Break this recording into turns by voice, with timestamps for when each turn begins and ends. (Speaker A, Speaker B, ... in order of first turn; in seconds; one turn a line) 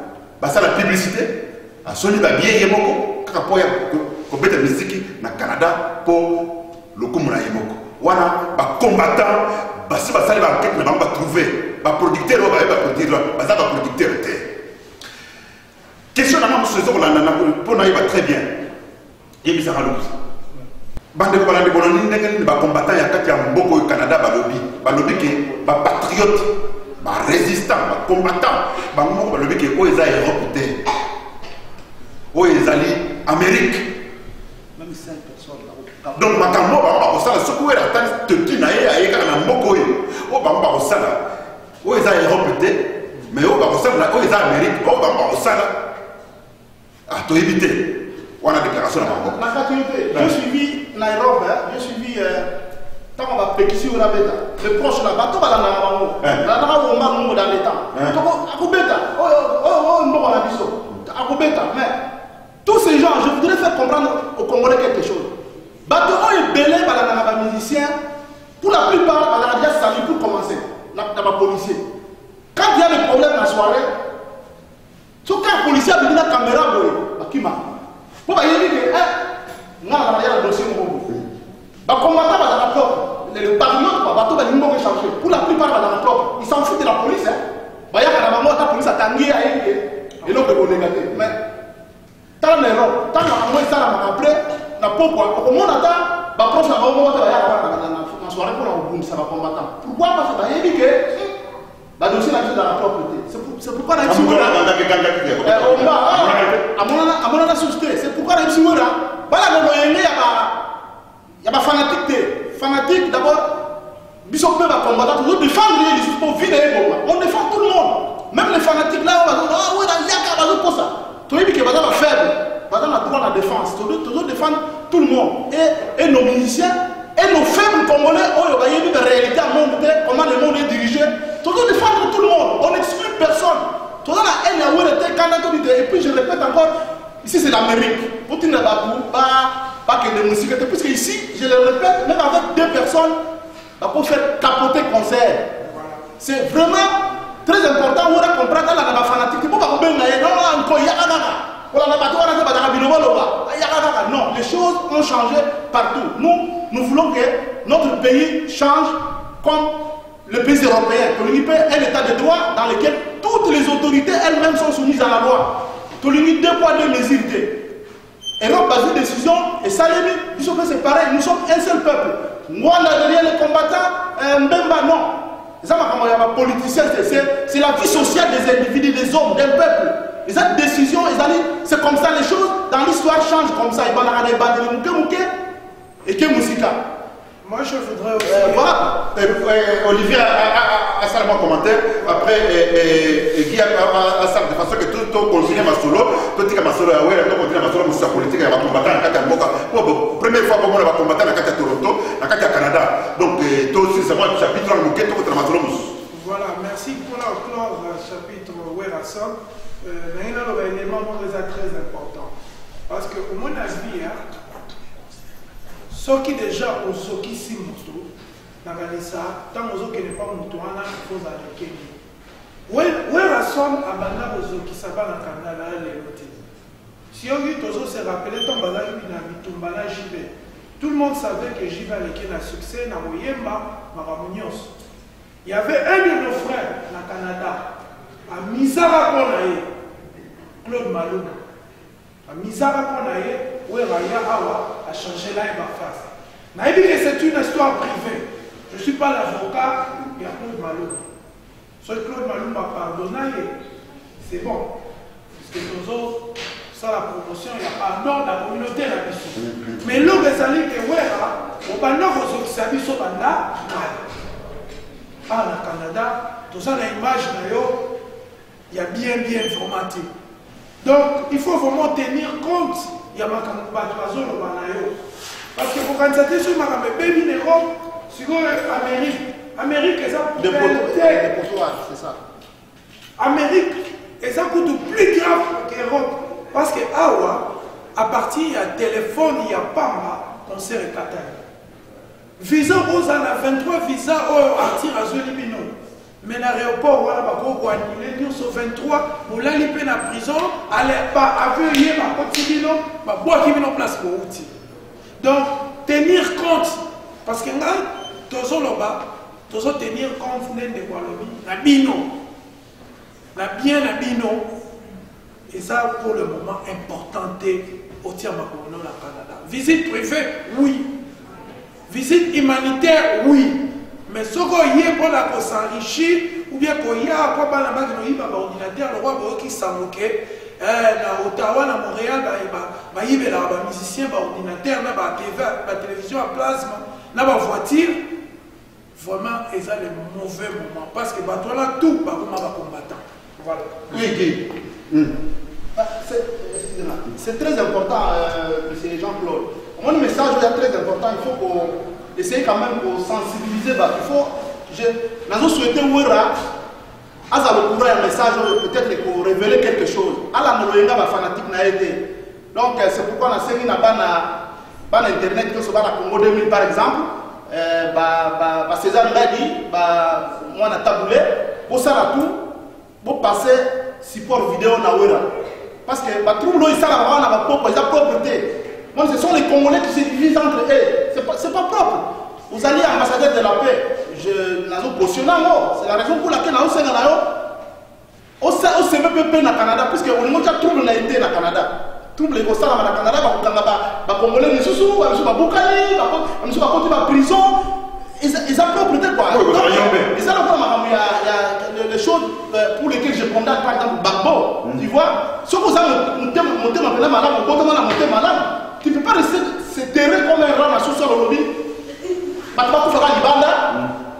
Speaker A: 0.4-14.5
Speaker A: 16.1-18.6
Speaker A: 19.4-20.2
Speaker A: 21.1-30.8
Speaker B: 25.2-25.6
Speaker A: 32.3-33.9
Speaker B: 34.8-36.7
Speaker A: 36.1-41.2
Speaker A: 41.8-45.8
Speaker A: 47.1-49.4
Speaker B: 49.0-52.5
Speaker B: 53.2-62.0
Speaker B: 62.6-65.3
Speaker B: 65.8-68.0
Speaker B: 68.6-71.8
Speaker B: 72.5-73.9
Speaker B: 75.2-77.7
Speaker B: 78.2-81.2
Speaker B: 81.9-87.4
Speaker B: 87.9-91.4
Speaker B: 92.4-101.3
Speaker B: 102.0-104.6
Speaker A: 104.0-106.6
Speaker B: 105.4-110.6
Speaker B: 111.4-113.6
Speaker B: 114.2-143.2
Speaker B: 143.8-145.6
Speaker B: 146.2-167.6
Speaker B: 168.4-185.3
Speaker B: 186.1-186.8
Speaker C: 187.4-188.7
Speaker B: 188.2-189.2
Speaker A: 189.1-206.0
Speaker C: 206.1-212.3
Speaker C: 212.9-214.2
Speaker C: 215.9-218.1
Speaker C: 218.6-221.9
Speaker C: 222.7-226.4
Speaker C: 227.1-234.7
Speaker C: 235.4-237.6
Speaker C: 238.3-239.7
Speaker C: 240.6-241.4
Speaker C: 242.3-251.0
Speaker C: 251.8-253.6
Speaker C: 254.2-254.7
Speaker C: 255.4-264.1
Speaker C: 265.3-267.9
Speaker C: 268.7-270.1
Speaker C: 270.8-274.9
Speaker C: 275.6-281.3
Speaker B: 280.4-282.2
Speaker C: 283.2-291.4
Speaker C: 292.4-304.5
Speaker C: 305.2-312.1
Speaker C: 313.4-314.5
Speaker C: 315.5-320.9
Speaker C: 321.9-338.0
Speaker C: 339.0-344.0
Speaker A: 343.9-345.2
Speaker B: 345.8-356.3
Speaker B: 357.3-372.5
Speaker B: 373.0-375.3
Speaker B: 375.9-387.4
Speaker B: 388.4-397.7
Speaker B: 398.2-411.7
Speaker A: 399.3-400.1
Speaker B: 412.5-413.8